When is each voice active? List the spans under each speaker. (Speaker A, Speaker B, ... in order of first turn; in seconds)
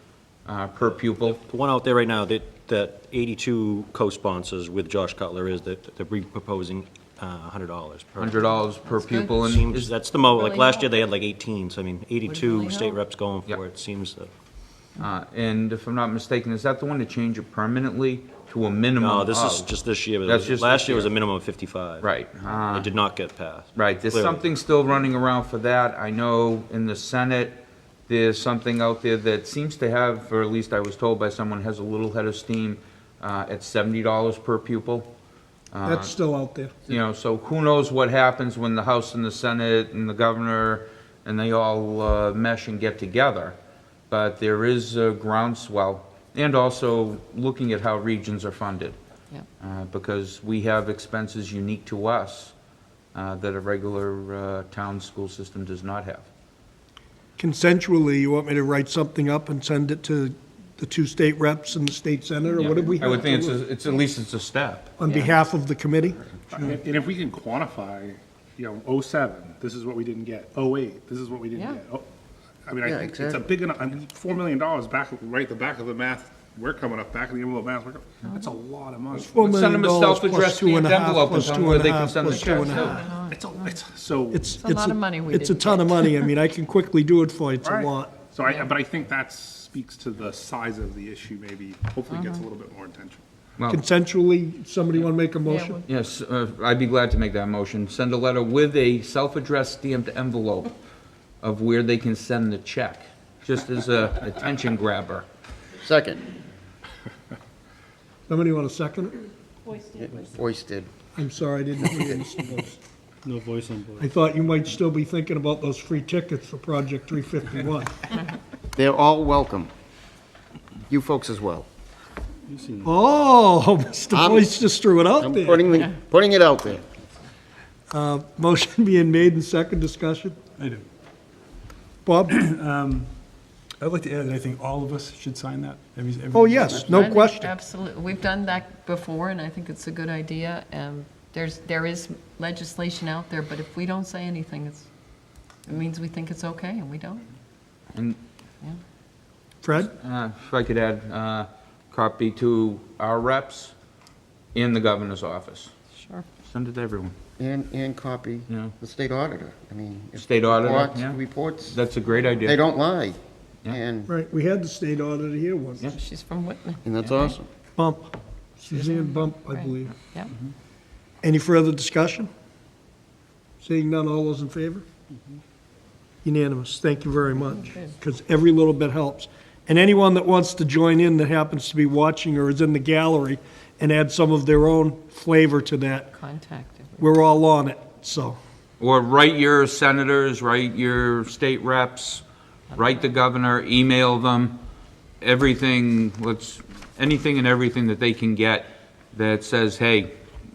Speaker A: 0.5-1.4, 8.2-9.9, 15.0-19.7, 20.2-21.1, 22.0-22.9, 23.8-35.1, 35.7-36.1, 36.9-43.5, 44.1-49.0, 49.6-52.5, 53.1-56.3, 62.6-64.9, 79.4-82.8, 95.9-100.7, 101.4-105.2, 149.9-153.7, 154.5-155.7, 156.4-157.1, 158.5-158.7, 160.2-162.7, 188.8-192.2, 192.7-194.6, 195.2-200.2
Speaker B: 1.3-8.5, 9.2-14.3, 19.0-22.1, 22.7-24.4
Speaker C: 8.8-9.4, 10.3-10.9, 12.3-13.0, 65.1-65.4, 71.5-71.8, 82.5-83.4, 84.5-86.3, 88.5-88.7, 92.1-92.4, 95.5-95.8, 136.9-144.9, 145.7-147.3, 156.0-156.2, 165.8-167.4, 168.7-170.3, 186.1-187.0
Speaker D: 35.8-36.8, 57.4-63.6, 65.0-66.7, 79.1-83.1, 84.3-88.2, 93.7-95.8, 108.3-109.2, 111.2-112.8, 114.0-118.0, 122.8-125.7, 127.9-130.4, 132.0-132.3, 136.3-137.5, 149.6-149.9, 164.1-165.9, 167.8-170.0, 171.2-172.3, 173.6-174.8, 176.2-186.1, 187.0-188.4
Speaker E: 66.5-72.1, 72.6-79.3, 82.5-84.5, 87.6-93.2
Speaker F: 72.8-73.5, 105.8-106.2, 109.9-110.9, 118.8-119.7, 120.9-121.7, 124.1-124.5, 125.2-126.9, 157.4-161.8, 162.4-164.1, 166.8-167.4
Speaker G: 113.2-114.1, 122.5-122.9, 130.6-130.9, 132.3-133.1, 133.8-137.5